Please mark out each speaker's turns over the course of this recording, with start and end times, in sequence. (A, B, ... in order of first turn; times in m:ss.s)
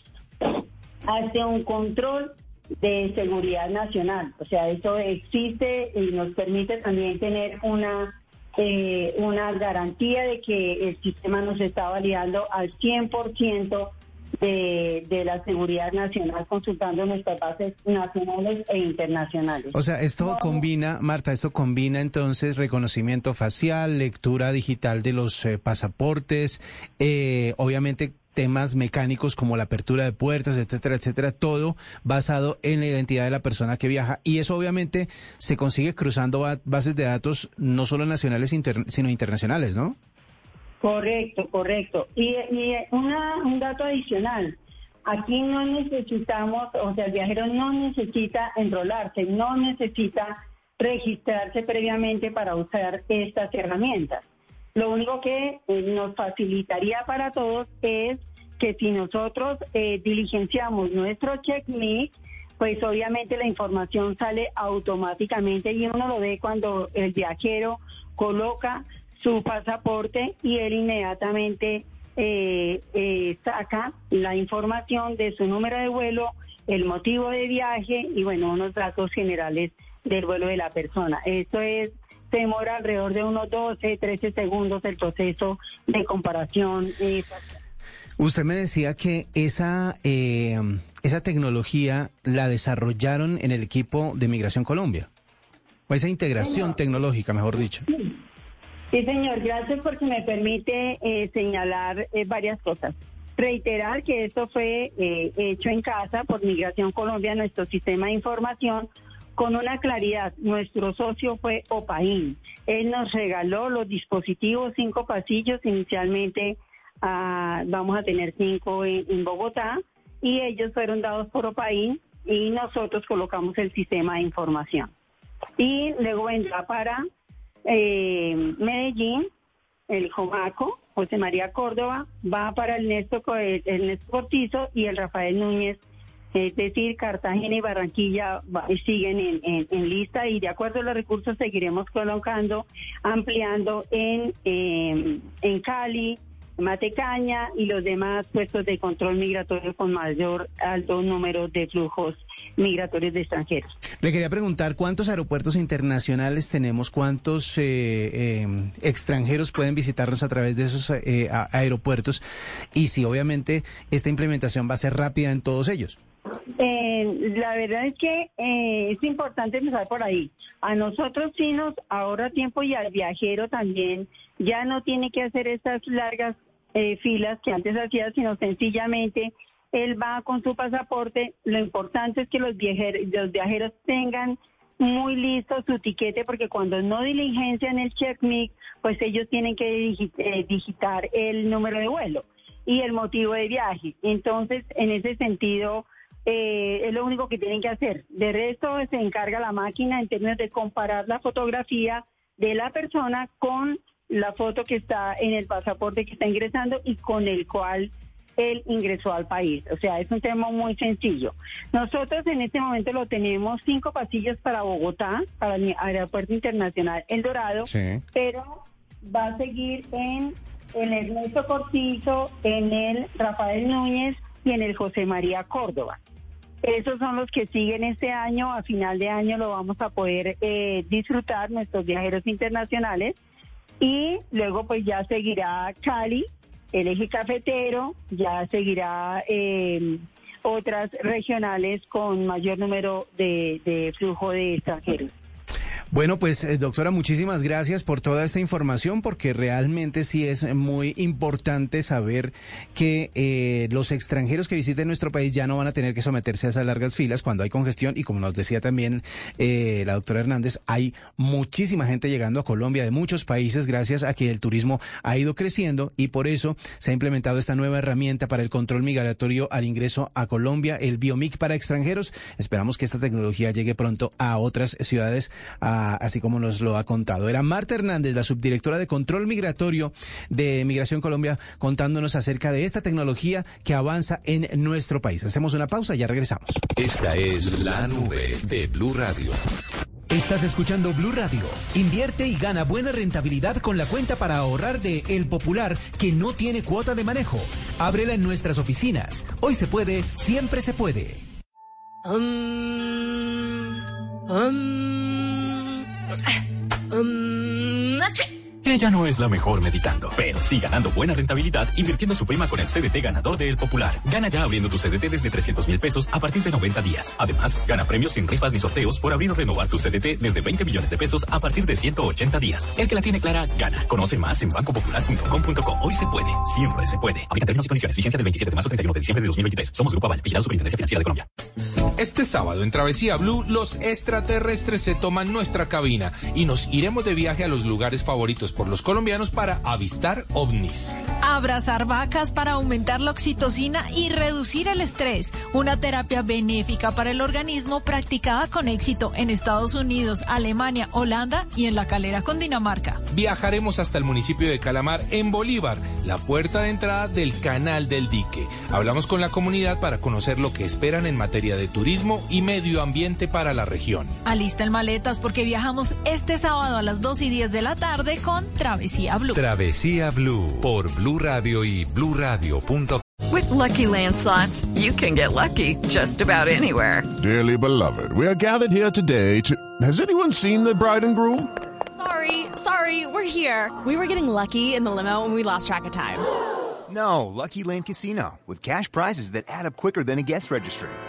0:00.4-0:20.6 A
0:19.7-0:40.0 B
0:40.8-0:54.2 A
0:54.7-1:27.4 A
1:28.2-1:35.1 B
1:35.9-1:37.9 B
1:36.4-1:36.7 A
1:38.9-2:04.9 A
2:05.6-2:07.0 A
2:07.6-2:09.3 A
2:09.9-2:15.8 A
2:16.3-2:33.7 A
2:34.0-2:42.2 B
2:42.7-2:46.0 B
2:46.6-3:46.0 A
3:37.7-3:38.0 B
3:46.6-3:53.2 A
3:53.8-4:05.1 A
4:05.9-4:46.6 B
4:46.8-4:49.4 C
4:50.1-5:01.2 B
5:02.0-5:03.7 D
5:04.3-5:05.6 D
5:06.9-5:08.2 D
5:08.6-5:31.2 E
5:32.0-5:41.0 F
5:41.2-5:53.0 G
5:53.1-6:04.2 F
6:04.2-6:09.4 G
6:09.3-6:13.0 C
6:13.3-6:17.1 H
6:17.2-6:21.5 I
6:22.0-6:26.2 J
6:26.9-6:31.0 K